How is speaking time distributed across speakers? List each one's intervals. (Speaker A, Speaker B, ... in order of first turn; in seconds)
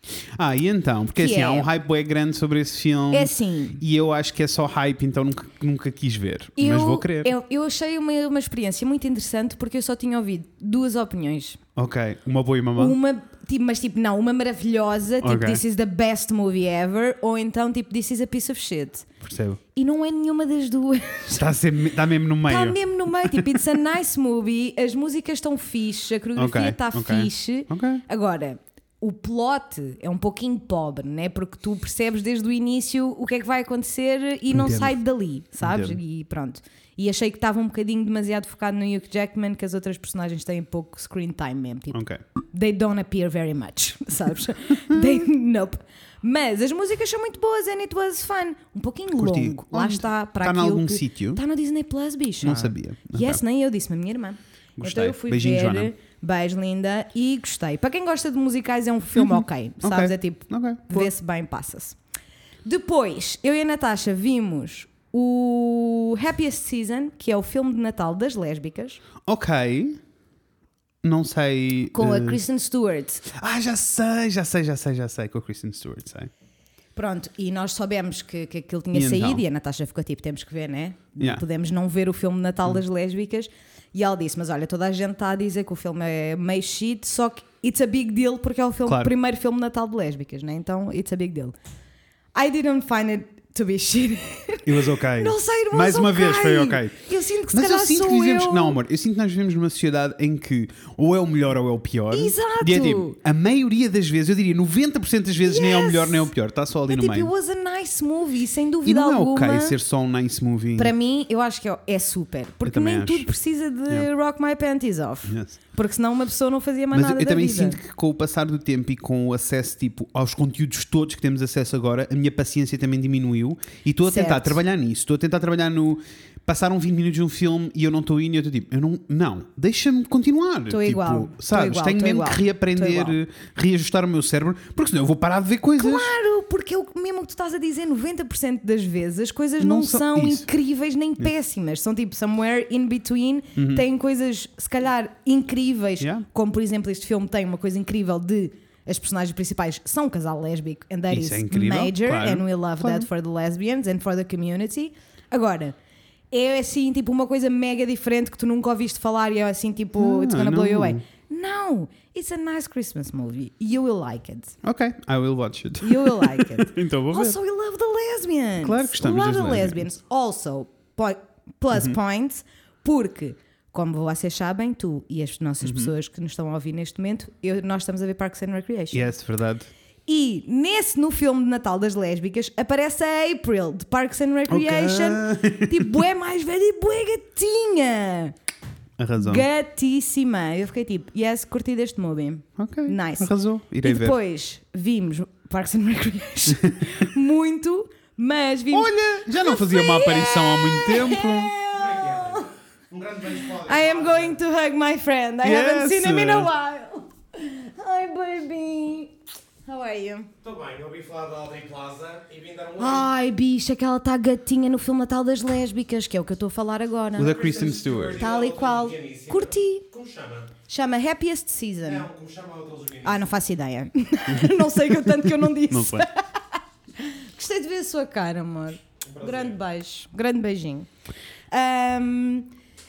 Speaker A: 0.3-7.3, 11.8-13.0, 15.2-15.6, 19.2-19.6, 21.3-23.6, 26.4-28.0, 34.5-35.0, 35.6-36.0, 41.9-42.2, 44.9-45.2, 49.1-51.4, 52.4-53.4, 54.8-55.9, 59.1-61.1, 69.2-70.0, 71.0-72.4, 73.3-76.3, 78.9-79.4, 81.2-81.4, 88.9-89.1, 94.6-107.3, 108.8-110.9, 112.6-113.3, 115.3-115.5, 116.9-136.1, 139.6-140.5, 143.6-143.8, 146.0-146.2, 151.1-153.1, 160.0-161.0, 164.6-167.4, 168.6-169.9, 175.6-175.9, 178.9-179.7, 184.5-185.9, 189.0-189.4, 192.6-194.2, 196.5-196.9, 198.7-201.5, 205.4-206.5, 217.2-218.2, 224.3-226.1
Speaker B: 1.2-1.7, 3.1-3.8, 6.6-11.6, 12.8-19.1, 19.7-21.5, 22.4-62.0, 62.6-69.0, 71.9-73.2, 76.9-91.5, 92.3-98.8, 102.1-103.2, 105.4-106.3, 106.9-109.8, 110.8-117.8, 124.0-124.6, 130.7-133.2, 135.8-155.8, 156.3-164.6, 165.8-179.1, 180.1-188.3, 189.2-193.3, 193.8-202.5, 203.6-209.1, 209.6-210.3, 212.8-217.3, 218.2-219.8, 220.7-222.1, 223.0-226.4, 227.0-230.9, 231.5-232.5
Speaker C: 201.7-204.4, 210.4-213.1, 217.2-220.5, 221.8-223.3, 229.1-229.6